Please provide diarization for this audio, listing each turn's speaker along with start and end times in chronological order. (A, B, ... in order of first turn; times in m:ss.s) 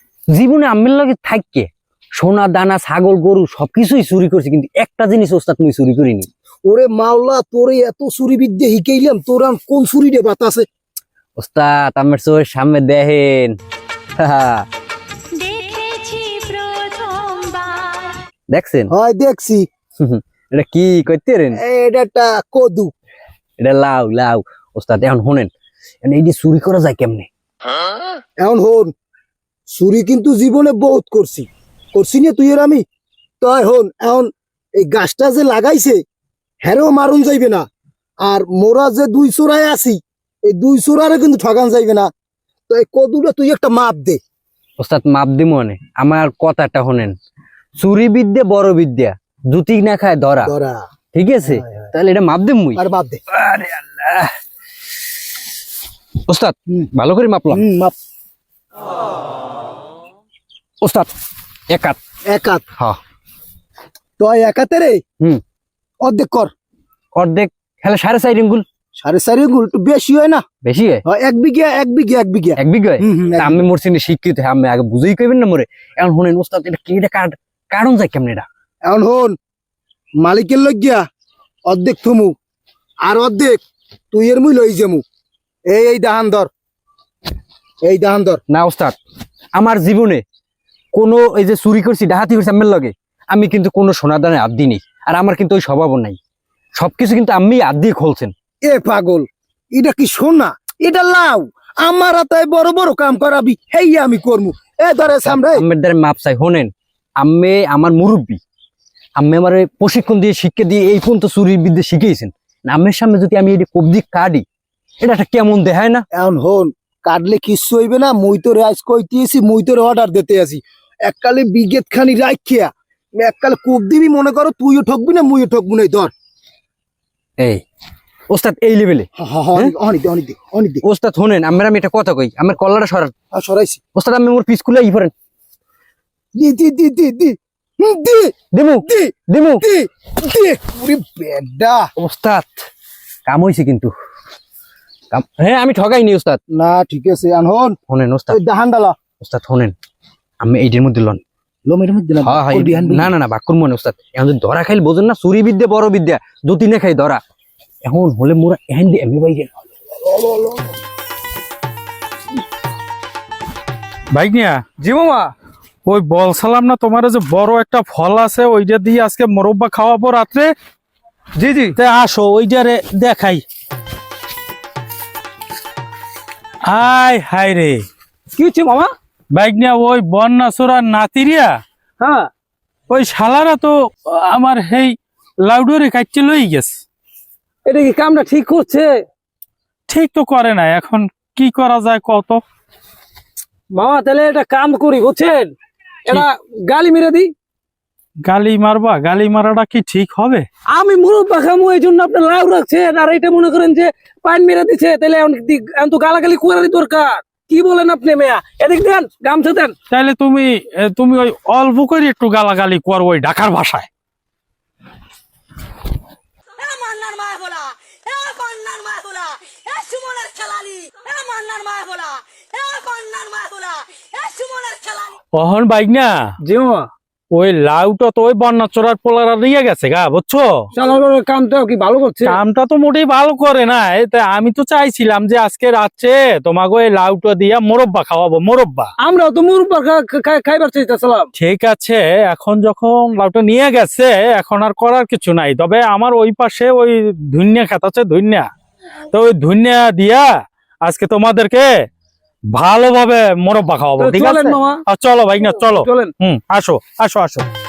0:00.3-0:06.3 A
0:06.6-0:10.6 B
0:11.4-0:13.6 A
0:14.2-0:14.7 A
0:15.3-0:18.2 C
0:18.5-0:18.9 A
0:18.9-0:19.7 B
0:20.0-0:21.6 A
0:21.5-0:22.9 B
0:23.6-0:25.5 A
0:26.0-0:27.3 A
0:28.4-0:28.9 B
0:29.7-0:32.8 B
0:33.4-0:36.0 B
0:36.6-0:37.6 B
0:38.2-0:42.1 B
0:42.7-0:44.2 B
0:44.8-0:47.1 A
0:47.8-0:50.5 A
0:50.4-0:50.8 B
0:51.1-0:54.3 A
0:51.4-0:51.9 B
0:52.8-0:53.2 B
0:56.3-0:57.6 A
0:57.5-0:57.9 B
1:00.8-1:01.1 A
1:01.7-1:02.0 A
1:02.3-1:02.6 B
1:04.2-1:05.0 B
1:06.0-1:06.5 B
1:07.2-1:08.6 A
1:09.0-1:10.4 B
1:10.6-1:11.0 A
1:11.0-1:13.6 B
1:12.6-1:18.5 A
1:18.8-1:19.4 B
1:20.2-1:21.0 B
1:21.7-1:22.3 B
1:23.0-1:25.0 B
1:25.7-1:26.5 B
1:27.8-1:28.4 B
1:28.5-1:29.0 A
1:29.5-1:30.2 A
1:30.9-1:36.2 A
1:36.8-1:38.3 A
1:38.6-1:45.6 B
1:45.2-1:48.4 A
1:49.2-1:54.4 A
1:55.0-1:56.0 A
1:56.1-2:06.1 B
2:08.3-2:09.7 A
2:09.2-2:10.8 B
2:10.8-2:13.1 A
2:13.3-2:13.8 B
2:14.0-2:15.1 A
2:16.3-2:18.3 B
2:18.5-2:19.6 A
2:18.8-2:21.9 B
2:22.0-2:22.6 A
2:23.2-2:23.9 A
2:25.1-2:26.4 A
2:26.5-2:27.8 B
2:27.9-2:28.4 A
2:28.3-2:29.0 B
2:29.2-2:29.7 A
2:30.4-2:31.2 A
2:31.7-2:33.1 B
2:32.2-2:37.2 A
2:37.8-2:39.5 A
2:40.0-2:40.7 B
2:44.1-2:44.6 D
2:44.8-2:45.3 E
2:45.8-2:50.5 D
2:51.4-2:51.7 E
2:51.8-2:53.4 D
2:56.6-2:57.8 D
2:58.3-2:58.9 E
2:59.3-3:01.6 D
3:02.0-3:02.3 E
3:02.9-3:06.7 D
3:07.6-3:09.0 E
3:09.9-3:12.4 D
3:13.7-3:15.5 E
3:16.1-3:17.3 E
3:18.2-3:20.4 D
3:20.7-3:29.7 E
3:29.9-3:33.9 D
3:36.6-3:45.1 C
3:36.8-3:37.5 E
3:38.1-3:38.7 E
3:41.2-3:41.6 E
3:45.3-3:46.2 D
3:46.4-3:46.9 E
3:47.3-3:50.6 D
3:50.7-3:52.4 E
3:52.2-3:58.9 D
3:59.0-4:01.3 E
4:01.3-4:08.5 D
4:09.1-4:10.3 D
4:10.8-4:11.7 D
4:12.5-4:17.4 D
4:14.0-4:14.8 E
4:15.4-4:16.1 E